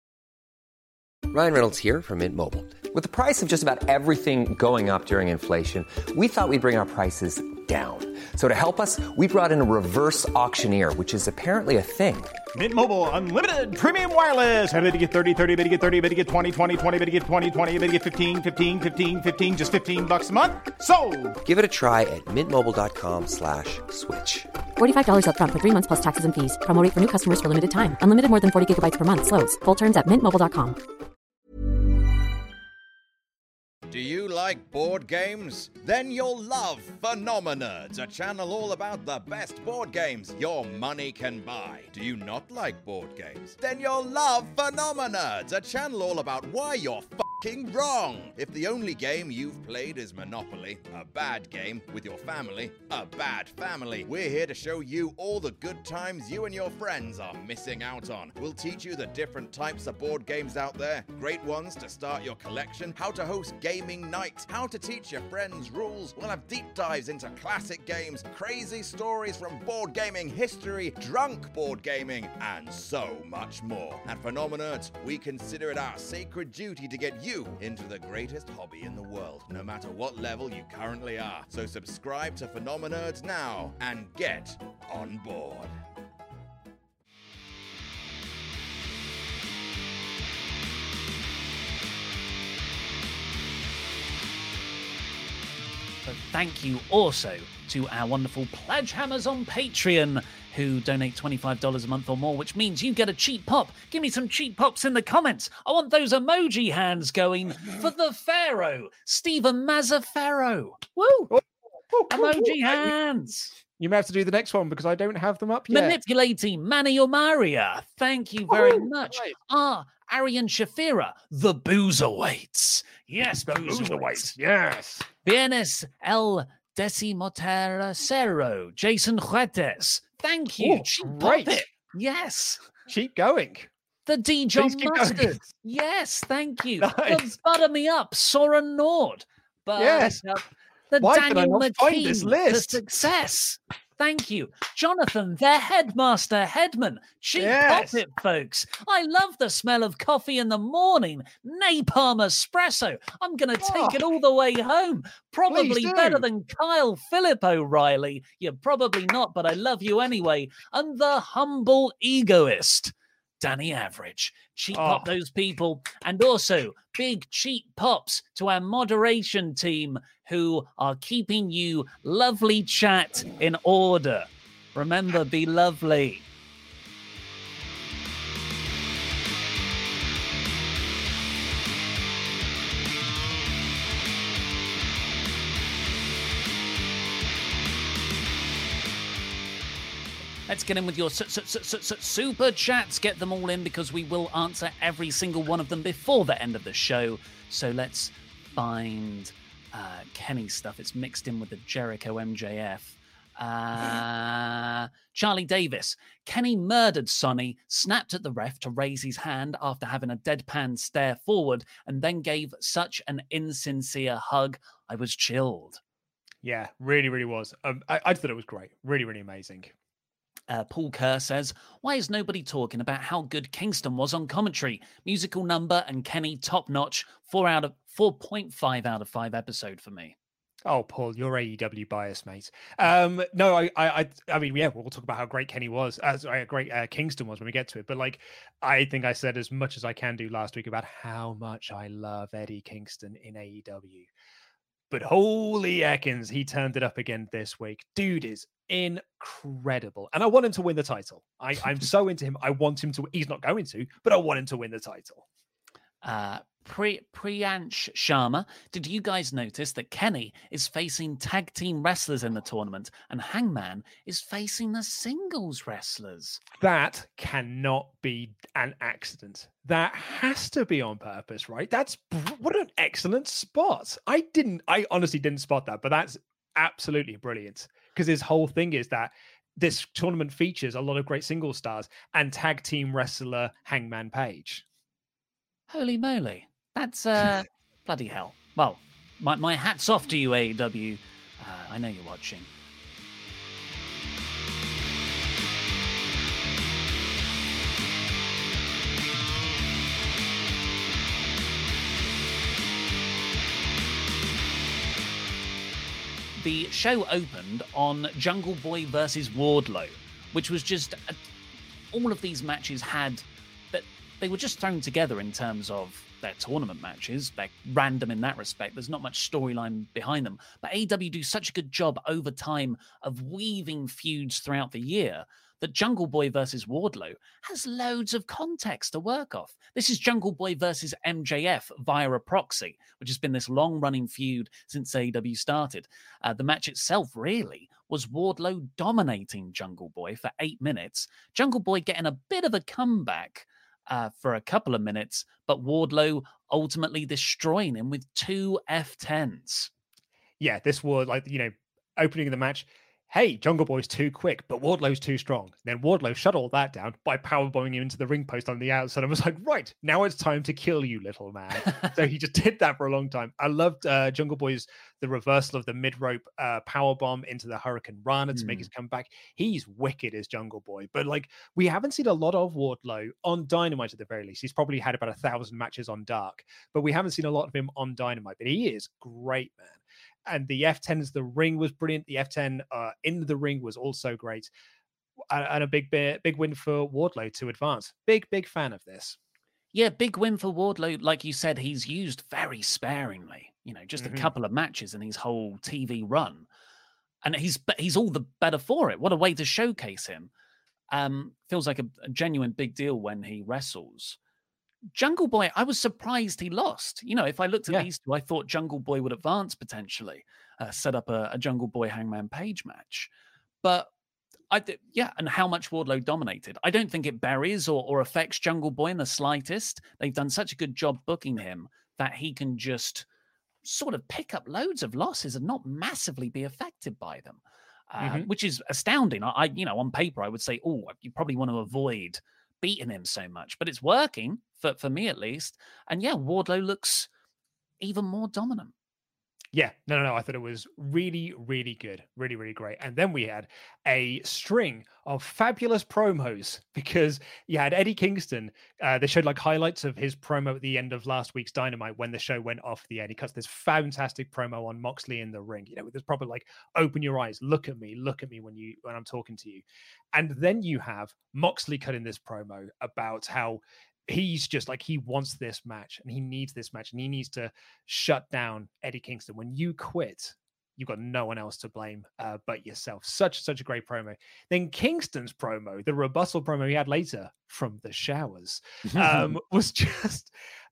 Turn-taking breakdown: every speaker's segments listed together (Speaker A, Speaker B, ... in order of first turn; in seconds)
Speaker A: 1.3-12.4, 21.4-24.5
Speaker B: 12.5-21.4
Speaker C: 24.8-30.8
Speaker D: 33.9-85.7
Speaker E: 96.0-111.3, 112.1-113.5, 115.7-124.3, 125.2-132.7, 134.1-176.2, 190.5-215.8, 220.5-230.1, 256.0-266.4, 285.7-292.5, 306.4-311.1, 311.9-349.7, 368.3-368.6, 389.7-396.4, 397.2-400.3, 400.9-404.2, 404.9-413.1, 413.6-413.9, 414.5-423.1, 423.6-437.1, 437.8-438.7, 478.9-479.4
Speaker F: 111.3-112.9, 113.8-116.0, 118.5-119.3, 123.4-125.1, 130.6-131.6, 132.9-133.7, 134.6-135.5, 136.8-137.3, 139.8-140.2, 141.0-142.8, 147.3-148.0, 153.6-154.1, 155.5-156.2, 164.7-165.1, 216.4-219.7, 230.6-244.1, 244.9-255.2, 266.6-284.6, 350.4-384.5, 385.3-389.2, 394.0-394.3, 428.0-428.3, 439.5-480.3